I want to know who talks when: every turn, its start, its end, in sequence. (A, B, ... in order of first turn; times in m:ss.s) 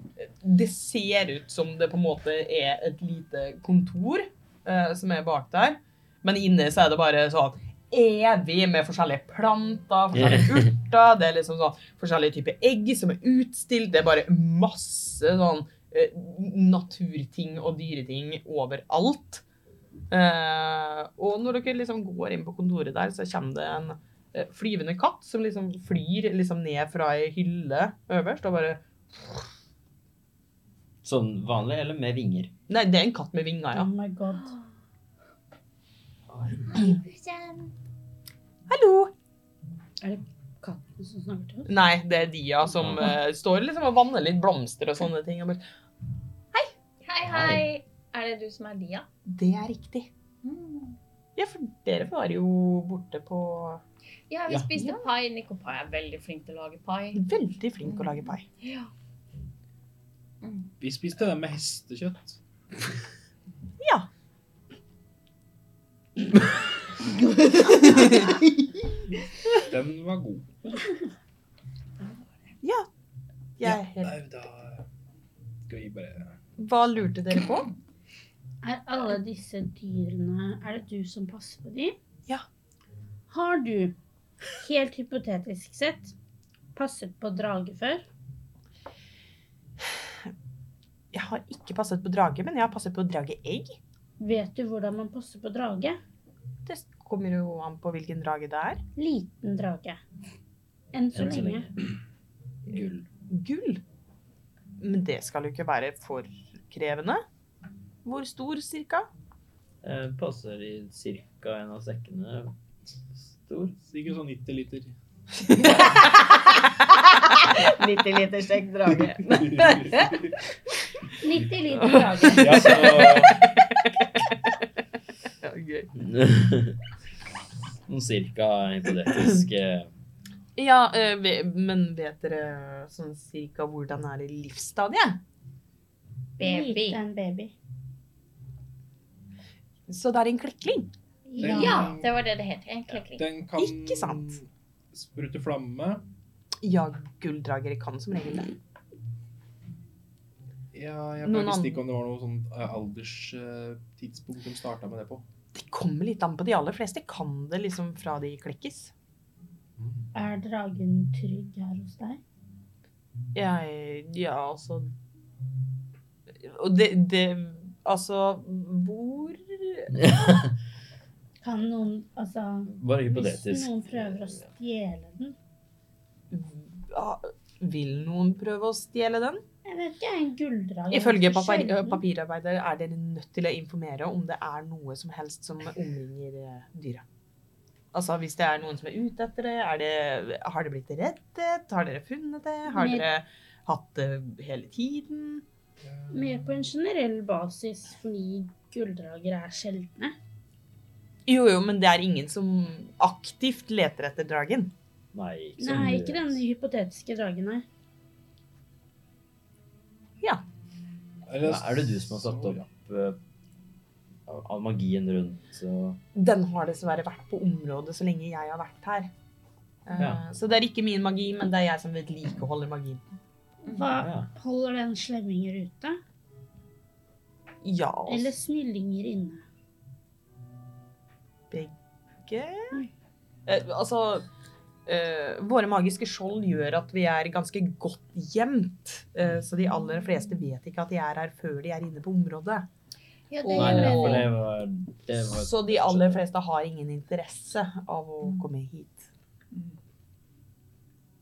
0:00.2-0:19.4 A
0:10.1-0:10.7 B
0:20.1-0:28.8 A
0:31.0-0:32.5 B
0:32.7-0:33.9 A
0:33.7-0:34.6 C
0:34.3-0:34.6 D
0:36.3-0:36.6 B
0:36.7-0:37.7 D
0:38.7-0:39.1 A
0:40.0-0:41.7 C
0:41.7-0:45.6 A
0:42.7-0:43.2 B
0:47.0-0:49.1 D
0:47.2-0:47.6 B
0:49.3-0:50.1 A
0:50.4-0:51.0 D
0:51.4-0:53.8 A
0:54.3-0:57.2 D
0:54.8-0:55.0 A
0:57.2-0:58.5 A
0:57.9-0:58.9 D
1:00.4-1:00.7 D
1:00.8-1:02.4 E
1:03.8-1:04.1 A
1:07.8-1:08.3 A
1:09.6-1:10.5 E
1:12.6-1:12.9 A
1:13.6-1:14.2 A
1:13.6-1:14.9 E
1:15.7-1:16.4 E
1:16.6-1:17.7 A
1:18.6-1:22.0 C
1:23.3-1:24.0 C
1:24.6-1:26.1 C
1:26.7-1:28.1 C
1:31.1-1:33.8 A
1:34.2-1:36.0 C
1:36.7-1:38.8 A
1:39.0-1:40.0 C
1:40.9-1:41.7 C
1:41.1-1:41.8 B
1:42.7-1:43.1 B
1:43.3-1:43.8 A
1:44.8-1:47.2 A
1:48.0-1:49.1 A
1:49.8-1:52.6 B
1:53.2-1:53.8 B
1:53.8-1:54.9 E
1:55.4-2:00.1 A
1:59.0-2:00.4 E
2:01.2-2:03.0 C
2:01.3-2:01.8 E
2:01.8-2:04.6 A
2:02.3-2:03.4 E
2:02.6-2:03.3 B
2:05.4-2:05.9 A
2:06.0-2:06.8 B
2:07.9-2:09.9 B
2:10.6-2:15.2 A
2:16.4-2:17.0 D
2:16.4-2:17.5 C
2:19.9-2:20.9 A
2:21.3-2:23.3 D
2:21.3-2:22.0 C
2:21.4-2:22.1 E
2:22.9-2:26.0 E
2:23.6-2:24.4 A
2:26.6-2:28.5 A
2:30.7-2:35.2 E
2:31.2-2:31.8 A
2:35.5-2:38.9 A
2:39.8-2:40.1 E
2:40.1-2:42.2 C
2:43.4-2:44.9 A
2:46.4-2:50.1 A
2:49.9-2:50.5 B
2:51.4-2:55.4 C
2:52.7-2:54.4 B
2:56.3-2:59.4 A
2:59.6-3:02.0 C
3:00.9-3:07.0 A
3:07.9-3:15.4 A
3:12.7-3:13.1 C
3:15.8-3:16.6 E
3:16.1-3:20.2 C
3:21.3-3:24.7 A
3:25.1-3:26.4 B
3:25.6-3:27.6 C
3:31.3-3:32.6 E
3:31.4-3:33.2 B
3:34.3-3:36.0 B
3:36.2-3:39.1 A
3:39.9-3:43.0 A
3:40.0-3:40.2 B
3:43.7-3:43.9 D
3:43.7-3:46.0 C
3:44.0-3:44.3 B
3:47.6-3:48.3 A
3:48.1-3:49.4 C
3:51.5-3:52.8 A
3:53.5-3:54.2 A
3:54.9-4:02.7 A
4:03.3-4:04.3 C
4:03.4-4:04.2 D
4:03.4-4:04.3 A
4:03.5-4:06.2 B
4:05.4-4:09.1 A